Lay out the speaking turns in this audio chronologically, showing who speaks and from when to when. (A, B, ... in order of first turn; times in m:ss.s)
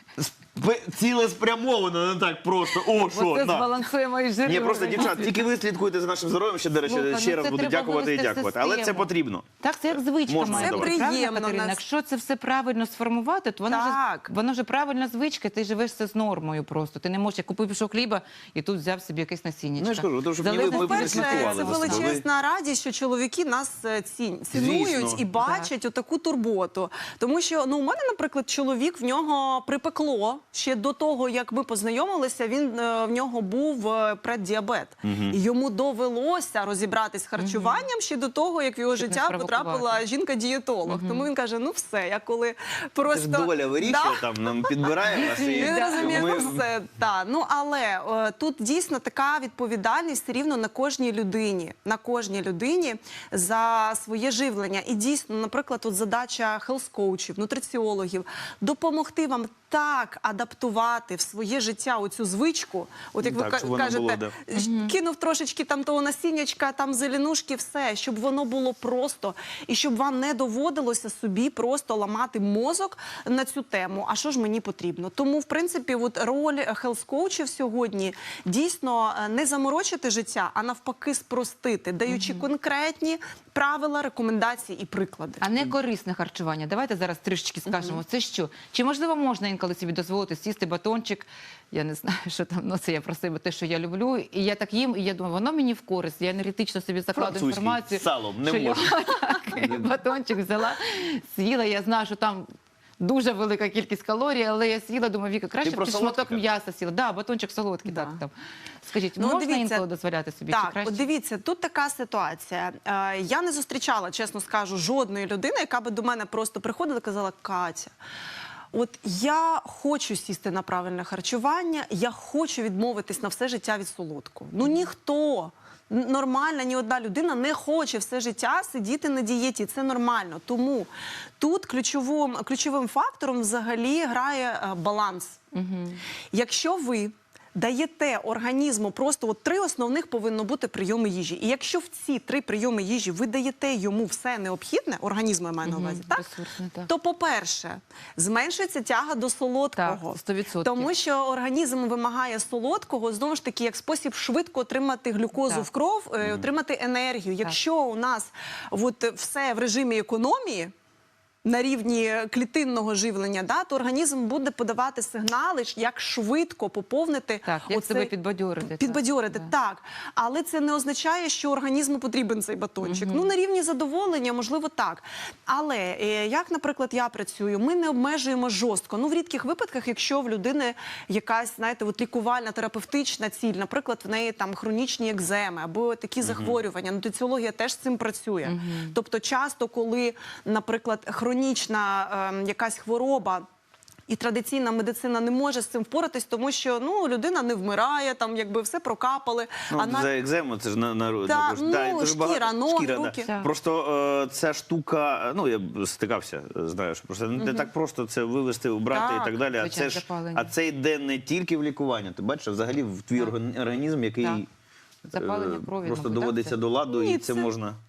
0:00.2-0:03.7 A
0:02.8-0:05.5 B
0:04.4-0:11.0 A
0:06.9-0:22.2 B
0:10.5-0:11.8 C
0:13.7-0:14.3 C
0:19.8-0:22.2 A
0:20.5-1:25.5 C
0:24.5-0:25.3 A
0:25.4-0:25.7 B
0:35.0-0:35.4 A
0:37.4-0:37.9 B
0:38.9-0:40.0 B
0:40.9-0:41.3 B
0:43.1-0:46.6 A
0:45.1-0:46.5 B
1:03.2-1:04.4 A
1:04.5-1:05.0 B
1:22.1-1:22.5 B
1:25.4-1:42.5 B
1:27.7-1:28.0 C
1:37.1-1:39.0 A
1:39.5-1:40.0 A
1:43.0-1:48.3 B
1:45.6-1:46.4 A
1:47.9-1:48.2 C
1:48.8-1:51.0 B
1:49.2-1:49.9 C
1:50.5-1:57.9 C
1:58.7-2:15.4 C
2:15.5-2:16.0 B
2:16.3-2:26.3 C
2:25.6-2:26.9 B
2:26.9-2:40.7 C
2:29.8-2:30.9 B
2:35.4-2:35.7 B
2:36.2-2:36.5 A
2:41.4-2:48.1 C
2:47.4-2:49.5 B
2:48.6-3:13.5 C
2:52.8-2:53.3 B
3:06.2-3:06.6 A
3:08.4-3:09.0 B
3:14.1-3:20.1 C
3:19.7-3:34.5 A
3:21.3-3:23.3 C
3:23.2-3:23.5 B
3:27.4-3:27.7 C
3:28.9-3:29.4 C
3:29.5-3:30.5 B
3:35.1-3:36.6 B
3:35.1-3:37.8 A
3:36.9-3:37.5 C